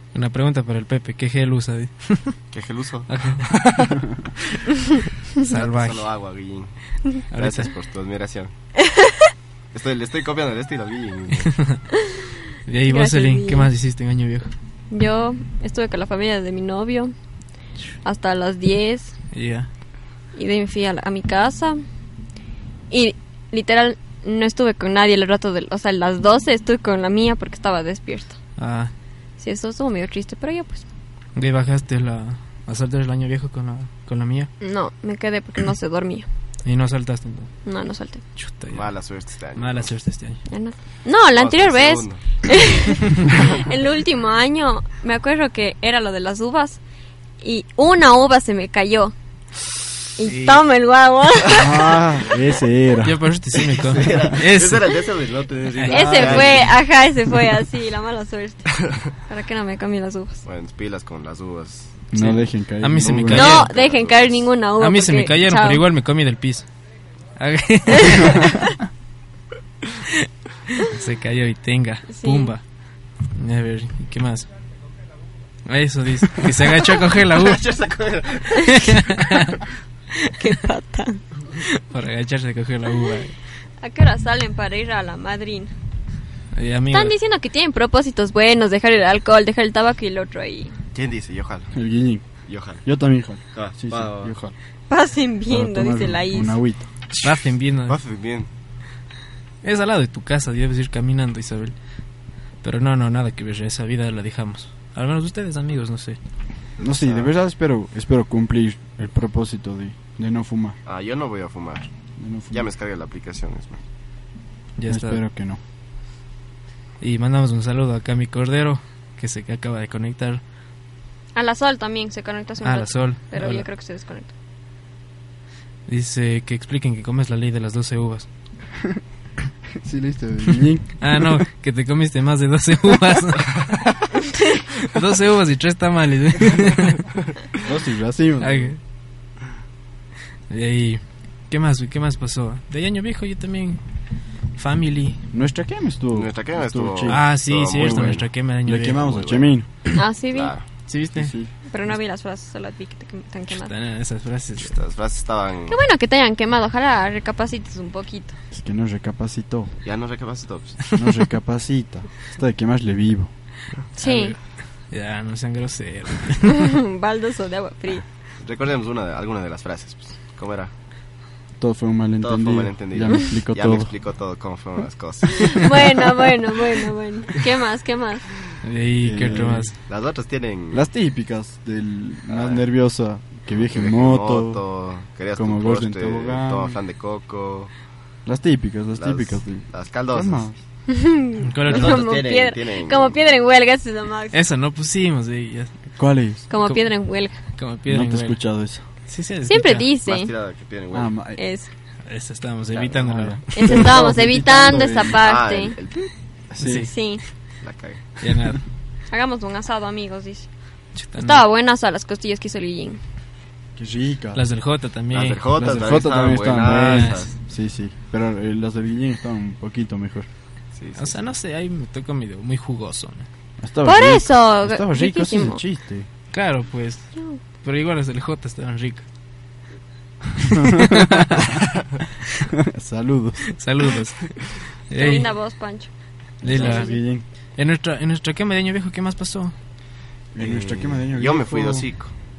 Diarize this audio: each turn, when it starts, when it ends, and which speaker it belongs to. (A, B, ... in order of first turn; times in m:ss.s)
0:00.1-0:02.4 A
0:02.5-0:03.9 B
0:03.1-0:03.8 A
0:05.4-0:06.1 A
0:05.5-0:08.5 B
0:07.3-0:07.7 A
0:08.9-0:09.3 C
0:09.7-0:11.6 B
0:12.6-0:14.5 A
0:12.9-0:13.7 C
0:14.9-0:17.1 C
0:18.0-0:19.1 C
0:19.3-0:19.7 A
0:20.3-0:21.8 C
0:22.9-0:28.4 C
0:28.6-0:28.9 A
0:29.4-0:30.8 C
0:31.3-0:34.5 A
0:34.6-0:36.3 C
0:36.6-0:37.5 A
0:37.6-0:38.2 C
0:38.4-0:38.9 A
0:38.7-0:39.9 B
0:39.5-0:40.4 A
0:40.5-0:46.8 C
0:41.3-0:42.2 B
0:47.4-0:49.1 C
0:50.2-0:52.0 C
0:50.2-0:50.6 A
0:51.5-0:53.3 D
0:53.0-0:55.0 A
0:53.8-0:56.7 B
0:55.8-0:56.5 A
0:55.9-0:58.7 C
0:59.3-1:00.4 C
1:00.4-1:02.0 B
1:02.1-1:03.7 D
1:02.1-1:03.7 A
1:03.0-1:04.5 B
1:03.3-1:05.8 C
1:04.8-1:06.7 A
1:07.4-1:08.6 A
1:10.8-1:12.6 A
1:12.1-1:12.5 C
1:13.3-1:14.5 A
1:15.6-1:17.6 A
1:17.2-1:19.2 B
1:18.7-1:19.6 A
1:20.4-1:21.2 C
1:21.6-1:23.3 A
1:23.8-1:25.7 C
1:26.5-1:27.2 A
1:26.9-1:30.7 C
1:30.9-1:31.7 B
1:31.7-1:32.3 D
1:32.4-1:32.8 B
1:32.8-1:34.5 D
1:33.5-1:34.3 B
1:34.9-1:36.6 C
1:35.5-1:36.8 D
1:37.2-1:38.0 A
1:37.8-1:38.5 B
1:39.6-1:41.7 A
1:42.6-1:46.2 A
1:46.8-1:50.8 D
1:46.8-1:47.3 B
1:50.8-1:51.9 B
1:52.2-1:52.7 D
1:52.5-1:53.8 B
1:54.8-1:55.2 A
1:54.9-1:55.6 D
1:57.0-2:00.4 A
2:01.3-2:04.3 C
2:02.6-2:03.7 A
2:05.9-2:08.2 A
2:09.8-2:11.4 D
2:11.0-2:13.7 A
2:14.8-2:17.0 A
2:17.6-2:18.7 D
2:18.4-2:18.8 A
2:20.5-2:23.8 A
2:24.6-2:25.2 A
2:25.3-2:29.7 D
2:26.1-2:28.2 B
2:27.0-2:29.3 A
2:29.0-2:29.5 B
2:30.0-2:30.5 C
2:30.3-2:30.6 B
2:30.9-2:31.3 A
2:31.1-2:31.5 D
2:31.7-2:33.7 C
2:33.5-2:34.8 A
2:34.6-2:35.8 B
2:35.7-2:38.3 C
2:38.5-2:39.7 D
2:39.8-2:40.8 B
2:40.9-2:43.3 D
2:44.0-2:44.3 C
2:44.0-2:44.4 A
2:44.9-2:46.7 A
2:46.5-2:48.0 C
2:48.4-2:50.7 B
2:51.6-2:53.9 D
2:52.2-2:55.7 B
2:55.5-2:58.2 C
2:58.6-2:59.7 A
2:59.0-2:59.7 D
2:59.2-3:00.8 B
3:00.7-3:04.6 D
3:02.3-3:02.6 B
3:03.5-3:07.7 B
3:05.3-3:06.8 D
3:08.2-3:10.6 D
3:08.9-3:10.4 B
3:10.9-3:14.4 C
3:11.4-3:12.2 A
3:11.6-3:13.2 B
3:14.3-3:15.9 A
3:16.0-3:16.4 D
3:16.5-3:17.4 C
3:16.5-3:16.8 A
3:17.4-3:18.4 A
3:17.8-3:18.8 D
3:19.1-3:19.9 A
3:19.4-3:20.3 C
3:20.0-3:21.1 B
3:20.9-3:21.4 D
3:21.4-3:21.7 C
3:22.1-3:23.4 A
3:22.7-3:23.1 B
3:23.0-3:25.2 D
3:23.5-3:25.8 C
3:25.1-3:26.1 B
3:26.5-3:26.9 D
3:26.6-3:26.9 A
3:26.9-3:27.2 C
3:27.6-3:28.1 B
3:28.2-3:28.6 A
3:29.1-3:30.5 C
3:30.9-3:31.4 A
3:31.2-3:33.0 C
3:33.8-3:34.4 D
3:34.3-3:35.4 A
3:35.1-3:37.3 B
3:35.5-3:40.3 D
3:36.8-3:37.2 A
3:40.7-3:41.3 B
3:41.0-3:43.3 A
3:43.6-3:46.1 D
3:43.8-3:45.6 C
3:46.3-3:49.0 A
3:50.5-3:51.4 A
3:51.1-3:51.4 D
3:52.6-3:53.6 D
3:53.5-3:55.3 A
3:54.9-3:55.9 C
3:56.4-3:57.2 D
3:56.4-3:59.5 A
3:56.6-3:57.0 C
4:00.3-4:01.9 D
4:00.4-4:02.1 B